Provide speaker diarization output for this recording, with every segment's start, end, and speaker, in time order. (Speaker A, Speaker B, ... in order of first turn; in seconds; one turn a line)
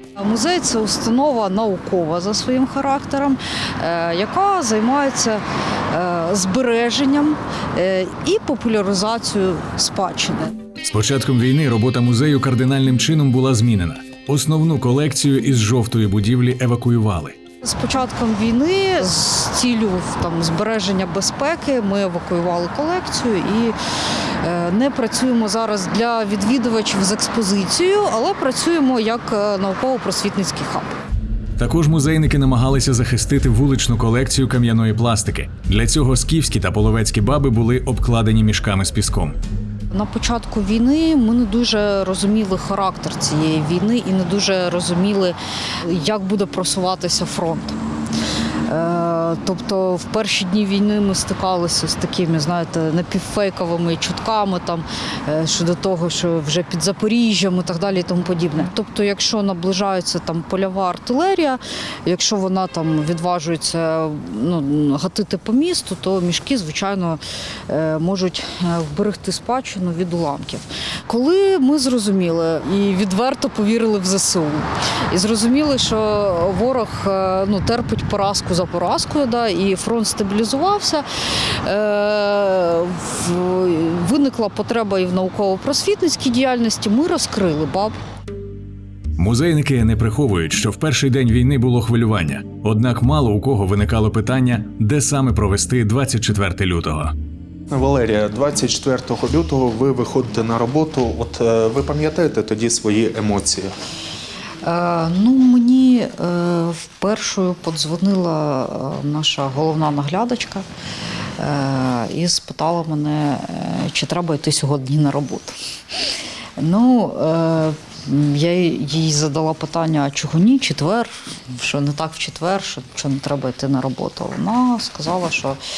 Speaker A: 0.2-10.5
Speaker B: 10.8-17.4
Speaker A: 17.6-23.8
Speaker A: 24.4-31.0
Speaker B: 31.6-39.4
Speaker A: 39.9-47.8
Speaker A: 48.7-81.0
Speaker A: 81.6-88.0
Speaker B: 89.2-97.1
Speaker C: 97.7-103.7
Speaker A: 104.6-110.7
Speaker A: 111.4-115.6
Speaker A: 116.6-125.6